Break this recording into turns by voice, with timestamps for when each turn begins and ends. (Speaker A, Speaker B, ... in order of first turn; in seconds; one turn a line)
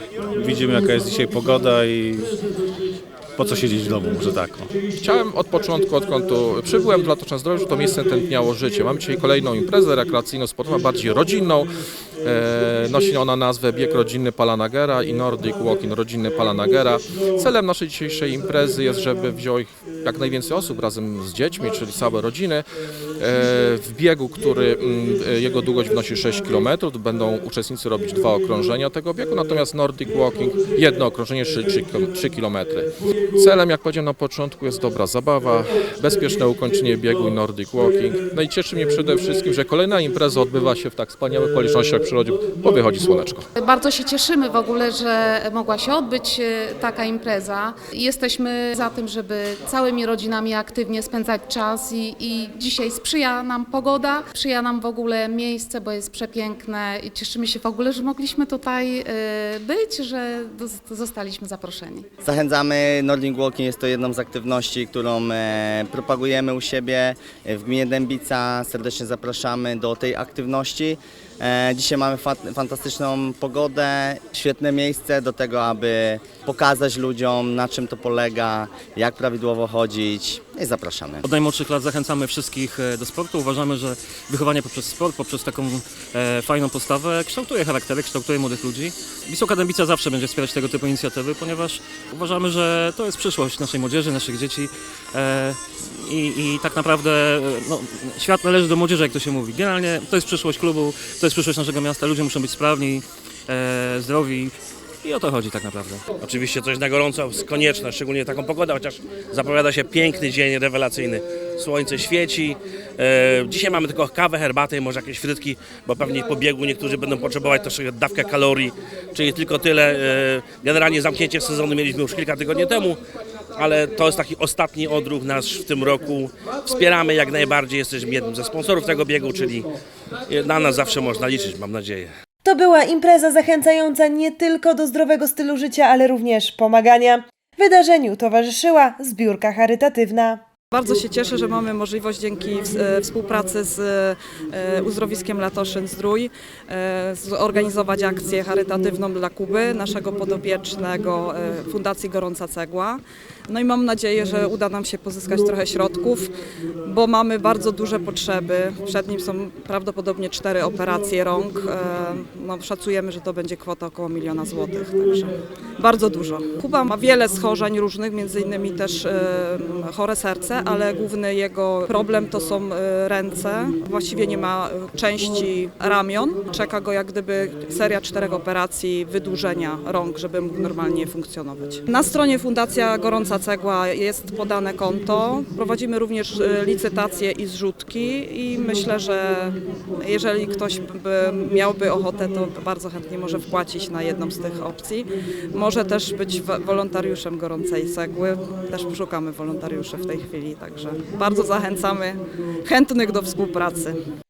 Speaker A: 0.3-2.4
Speaker A: 3.3-4.7
Speaker B: 5.0-11.7
Speaker B: 12.2-22.6
Speaker B: 23.2-43.5
Speaker C: 43.5-62.1
Speaker D: 62.2-81.2
Speaker E: 81.2-106.0
Speaker F: 106.2-123.0
Speaker F: 123.5-129.7
Speaker F: 130.3-132.1
Speaker G: 132.4-140.4
Speaker H: 140.7-204.0